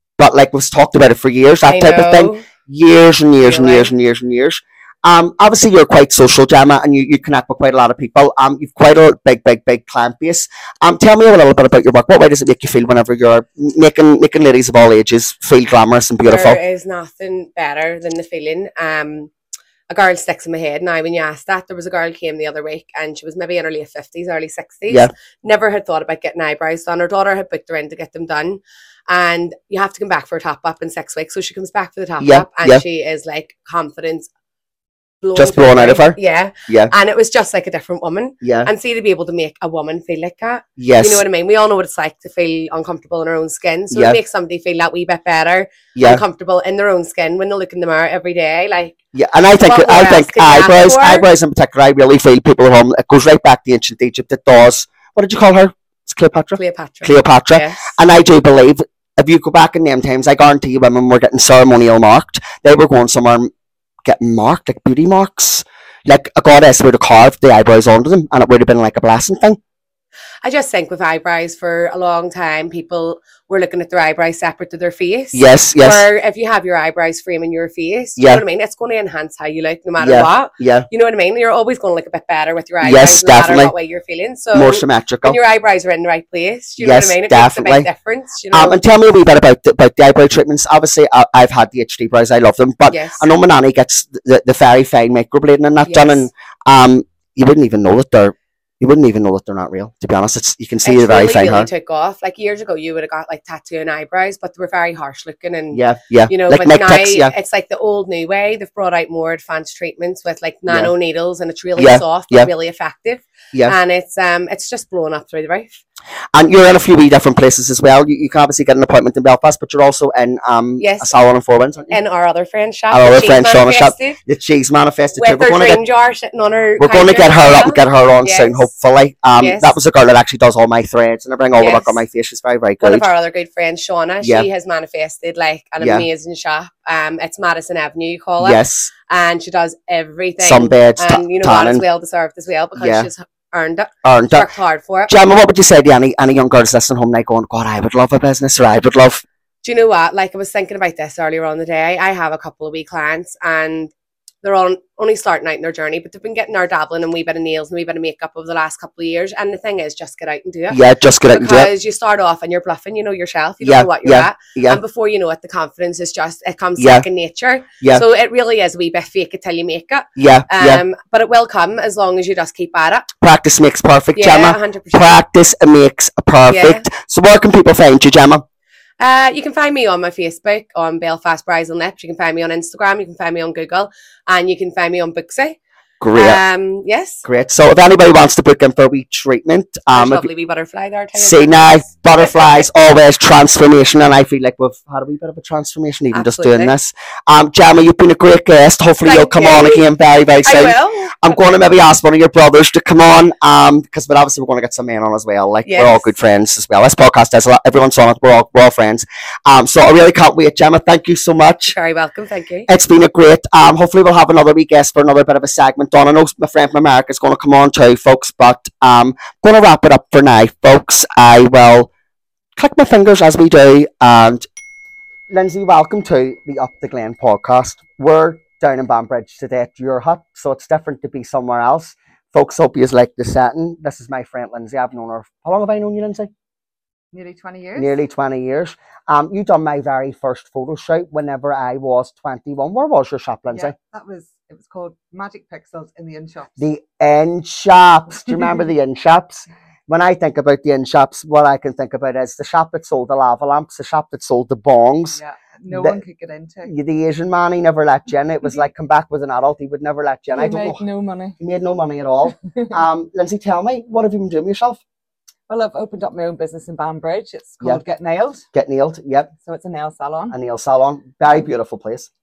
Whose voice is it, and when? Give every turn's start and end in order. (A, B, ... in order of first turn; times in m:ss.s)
0:00.2-0:16.6 A
0:01.6-0:02.4 B
0:03.4-0:03.9 B
0:16.2-0:19.3 B
0:19.9-0:34.3 B
0:32.2-0:32.8 A
0:35.2-0:49.0 B
0:35.4-0:36.9 A
0:38.4-0:38.7 A
0:40.8-0:41.2 A
0:43.9-0:44.2 A
0:46.0-0:46.2 A
0:49.1-1:03.5 A
0:49.6-0:51.3 B
0:56.6-0:58.0 B
1:04.0-1:09.6 A
1:10.4-1:28.8 B
1:15.3-1:16.1 A
1:18.2-1:18.4 A
1:20.0-1:20.9 A
1:22.8-1:23.7 A
1:24.5-1:25.4 A
1:26.8-1:27.9 A
1:28.5-1:41.7 A
1:32.9-1:33.3 B
1:35.8-1:36.3 B
1:40.8-1:55.8 B
1:45.7-1:47.3 A
1:50.7-1:50.9 A
1:51.8-1:52.5 A
1:56.3-2:02.0 A
2:00.8-2:01.2 B
2:01.9-2:04.2 B
2:02.9-2:05.8 A
2:05.2-2:08.7 B
2:06.8-2:13.1 A
2:09.4-2:09.8 B
2:11.6-2:12.0 B
2:12.8-2:25.2 B
2:14.2-2:14.5 A
2:15.8-2:16.1 A
2:18.4-2:18.9 A
2:20.4-2:21.8 A
2:22.8-2:23.1 A
2:24.0-2:24.5 A
2:25.1-2:29.2 A
2:29.6-2:53.1 B
2:40.7-2:41.7 A
2:43.6-2:44.8 A
2:46.8-2:47.1 A
2:50.2-2:50.8 A
2:53.2-2:58.4 A
2:54.2-2:55.2 B
2:56.5-2:56.9 B
2:59.0-3:05.6 B
3:06.0-3:06.4 A
3:06.1-3:07.2 B
3:07.2-3:10.3 A
3:09.9-3:12.7 B
3:11.2-3:31.8 A
3:16.1-3:16.7 B
3:19.0-3:19.8 B
3:20.4-3:21.4 B
3:25.7-3:26.1 B
3:31.7-3:32.7 B
3:32.7-3:41.9 A
3:42.6-3:44.5 A
3:45.3-3:56.3 A
3:57.1-3:58.0 C
3:57.8-4:03.8 A
4:03.5-4:06.7 C
4:06.6-4:16.0 A
4:15.1-4:16.7 C
4:16.6-4:20.8 A
4:20.3-4:21.4 C
4:21.4-4:24.8 A
4:22.4-4:22.8 C
4:25.5-4:28.5 C
4:28.5-4:29.3 A
4:29.4-4:30.4 C
4:30.3-4:32.1 A